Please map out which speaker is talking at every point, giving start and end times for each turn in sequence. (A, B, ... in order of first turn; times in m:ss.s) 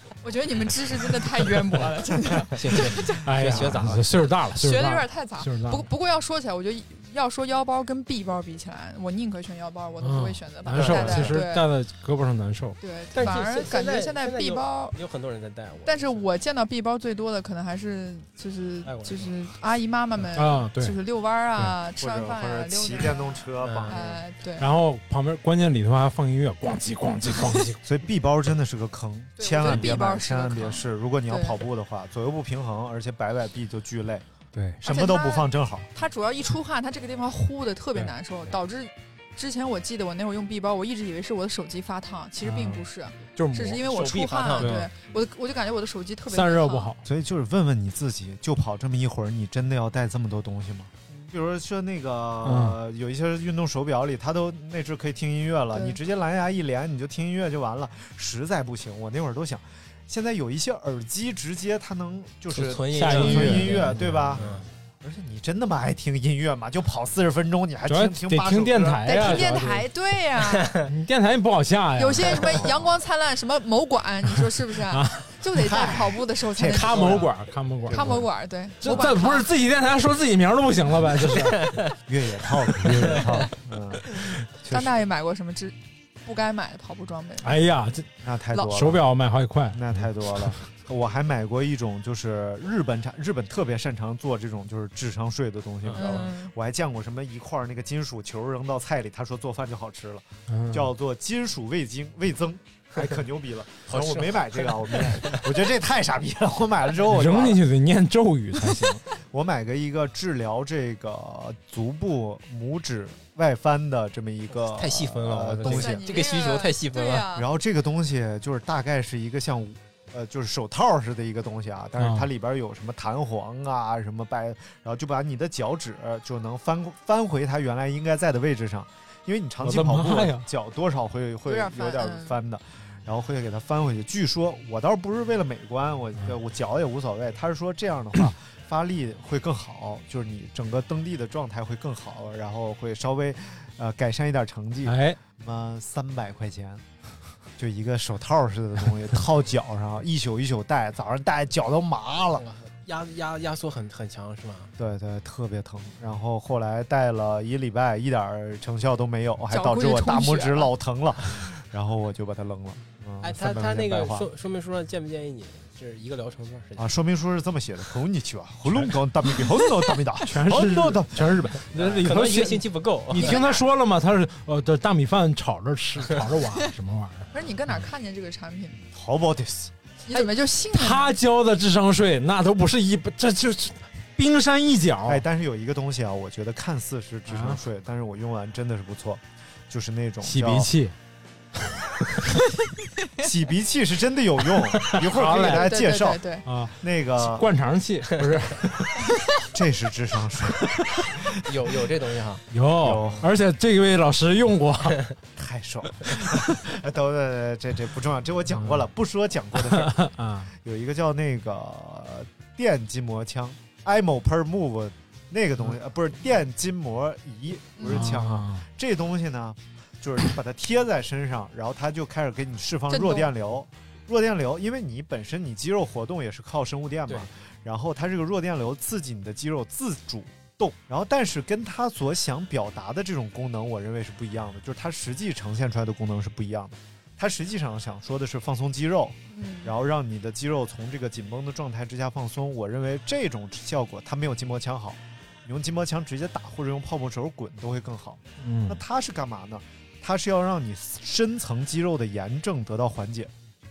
0:00.2-0:03.3 A
0:01.4-0:01.8 B
0:02.5-0:04.1 C
0:03.2-0:05.9 B
0:04.5-0:11.7 A
0:10.0-0:12.8 B
0:10.7-0:11.4 D
0:12.8-0:15.0 A
0:13.1-0:16.3 C
0:15.8-0:24.7 A
0:18.8-0:19.3 C
0:20.3-0:21.0 B
0:22.0-0:24.2 D
0:23.6-0:24.0 C
0:24.6-0:27.8 B
0:27.8-0:34.2 D
0:29.4-0:31.6 A
0:29.6-0:29.9 B
0:34.5-0:34.8 B
0:34.8-0:35.9 D
0:34.8-0:46.9 A
0:42.4-0:43.8 B
0:43.8-0:44.9 C
0:44.6-0:44.9 B
0:46.3-0:47.0 B
0:47.0-1:04.5 D
0:52.4-0:52.8 B
0:55.7-0:56.0 A
1:02.5-1:04.6 C
1:02.9-1:04.7 B
1:05.0-1:09.5 D
1:07.9-1:09.9 B
1:09.0-1:10.8 A
1:10.6-1:10.9 C
1:10.8-1:12.7 B
1:12.0-1:17.3 A
1:14.4-1:15.3 B
1:15.5-1:17.3 D
1:16.6-1:18.3 B
1:17.8-1:18.3 D
1:17.9-1:19.5 A
1:18.8-1:21.8 B
1:22.0-1:24.9 D
1:22.7-1:23.5 B
1:23.0-1:23.2 C
1:24.7-1:27.5 A
1:27.4-1:30.6 B
1:28.2-1:29.0 D
1:29.7-1:47.6 D
1:35.8-1:36.3 C
1:35.9-1:36.5 A
1:40.5-1:40.9 B
1:43.9-1:45.6 C
1:47.0-1:49.0 B
1:49.2-1:56.1 D
1:54.5-1:57.3 C
1:55.6-1:57.5 A
1:57.3-2:26.8 D
2:02.0-2:02.3 B
2:09.6-2:10.5 B
2:11.4-2:12.4 A
2:24.8-2:25.2 B
2:27.6-2:32.5 D
2:32.3-2:34.7 C
2:34.8-2:44.3 D
2:39.5-2:40.7 A
2:43.2-2:46.9 C
2:46.8-2:51.8 D
2:50.2-2:57.8 B
2:51.6-2:53.5 C
2:53.1-2:53.6 A
2:57.3-2:58.8 A
2:58.9-2:59.7 D
3:00.0-3:01.2 A
3:00.1-3:05.2 B
3:05.0-3:10.7 D
3:07.3-3:07.6 B
3:10.2-3:10.9 B
3:13.2-3:17.5 D
3:14.8-3:15.8 B
3:15.3-3:16.4 A
3:16.4-3:19.2 B
3:19.5-3:21.3 D
3:20.7-3:21.1 B
3:21.3-3:22.4 C
3:22.5-3:25.1 B
3:22.8-3:23.3 D
3:25.4-4:13.3 D
3:28.6-3:28.8 B
3:29.6-3:30.5 B
3:37.8-3:38.1 A
3:37.8-3:38.6 B
3:42.9-3:43.3 A
3:59.3-3:59.7 A
4:08.4-4:08.8 B